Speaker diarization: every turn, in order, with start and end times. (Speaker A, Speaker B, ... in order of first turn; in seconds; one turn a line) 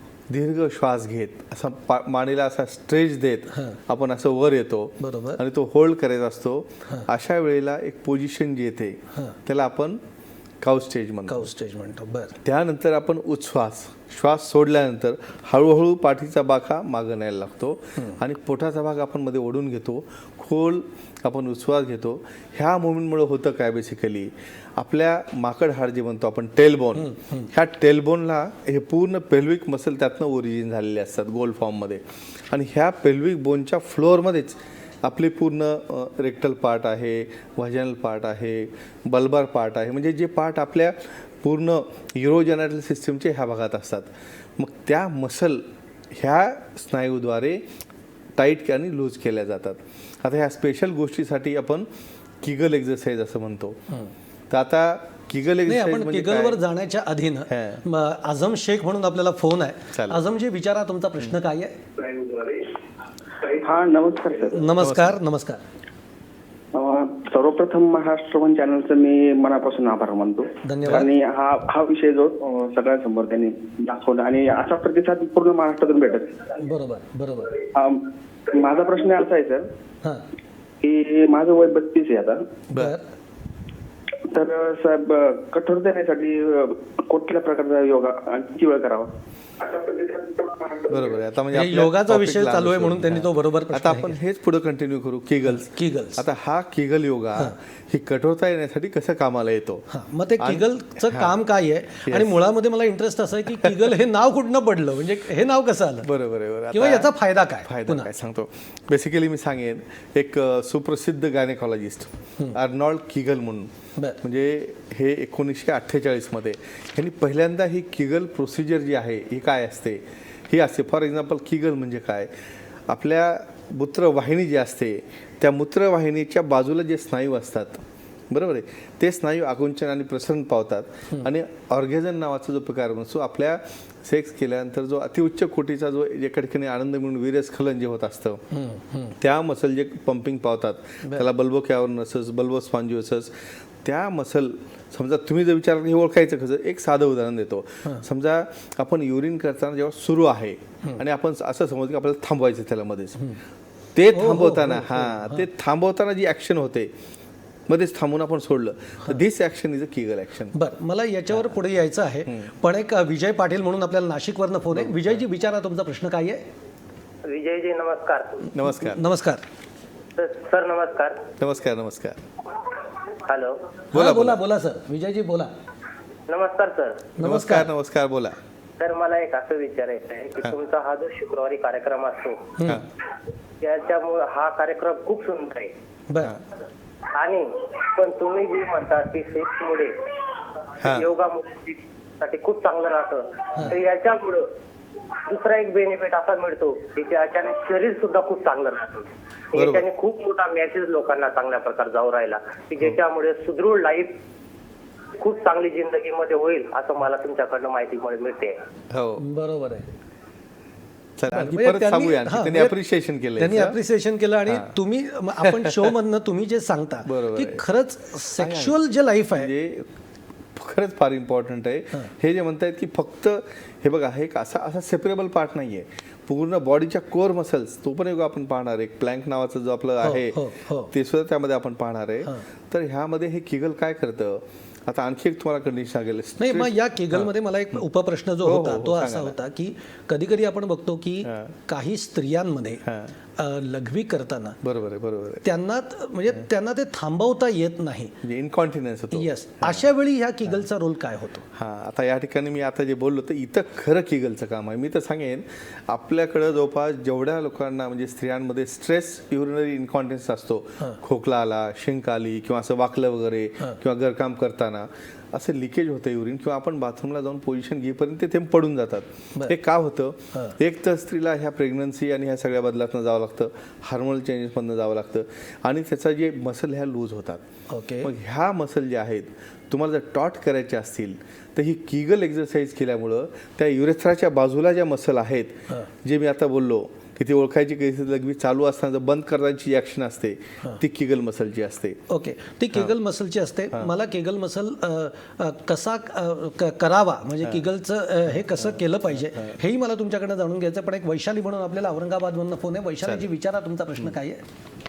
Speaker A: 0.3-10.0
Speaker B: 3.5-3.8
Speaker B: 5.0-5.4
Speaker A: 10.6-11.5
Speaker B: 11.3-12.4
Speaker A: 12.4-47.7
Speaker B: 27.0-27.5
Speaker A: 48.4-51.9
Speaker A: 52.4-53.8
Speaker A: 54.5-56.6
Speaker B: 55.7-61.8
Speaker A: 57.5-57.8
Speaker A: 59.9-60.2
Speaker C: 62.2-62.6
Speaker C: 63.5-64.7
Speaker B: 64.5-65.6
Speaker A: 64.8-65.2
Speaker C: 66.7-76.4
Speaker B: 70.7-71.1
Speaker B: 76.6-77.6
Speaker C: 77.7-79.7
Speaker C: 80.8-82.5
Speaker B: 82.8-83.0
Speaker C: 84.3-90.9
Speaker A: 90.9-99.9
Speaker B: 91.5-94.2
Speaker B: 95.5-96.2
Speaker B: 99.9-106.1
Speaker A: 100.4-101.4
Speaker A: 102.1-102.4
Speaker A: 106.0-107.1
Speaker B: 106.7-108.1
Speaker A: 107.6-122.3
Speaker A: 122.9-138.4
Speaker B: 138.5-139.2
Speaker A: 139.2-153.2
Speaker A: 153.9-156.9
Speaker B: 154.1-155.5
Speaker A: 157.7-160.5
Speaker B: 160.5-166.4
Speaker A: 162.2-162.5
Speaker A: 164.7-165.1
Speaker D: 167.2-168.5
Speaker A: 168.5-169.1
Speaker B: 168.7-169.4
Speaker D: 170.2-171.3
Speaker A: 171.4-172.2
Speaker D: 173.1-173.6
Speaker A: 173.9-174.4
Speaker B: 173.9-175.5
Speaker D: 176.3-177.1
Speaker B: 177.2-177.7
Speaker A: 177.2-178.4
Speaker D: 178.8-182.5
Speaker B: 182.6-182.8
Speaker D: 183.6-185.7
Speaker B: 186.1-186.4
Speaker D: 187.1-194.5
Speaker A: 190.8-191.1
Speaker D: 195.2-204.2
Speaker A: 199.6-199.9
Speaker D: 205.2-208.6
Speaker A: 208.9-209.2
Speaker B: 209.2-209.9
Speaker A: 211.2-213.8
Speaker B: 211.3-212.8
Speaker B: 213.4-219.5
Speaker A: 214.5-214.7
Speaker A: 215.4-215.9
Speaker A: 217.1-217.6
Speaker A: 218.4-218.8
Speaker A: 219.3-219.9
Speaker A: 220.6-237.8
Speaker B: 230.0-230.9
Speaker B: 236.4-242.8
Speaker A: 238.4-239.4
Speaker A: 241.2-241.5
Speaker A: 242.8-243.2
Speaker B: 243.4-244.6
Speaker A: 244.6-245.5
Speaker B: 245.4-248.1
Speaker A: 248.2-249.8
Speaker B: 249.1-251.4
Speaker A: 251.6-277.4
Speaker B: 277.7-278.1
Speaker A: 278.0-292.0
Speaker B: 292.1-304.4
Speaker A: 298.5-299.6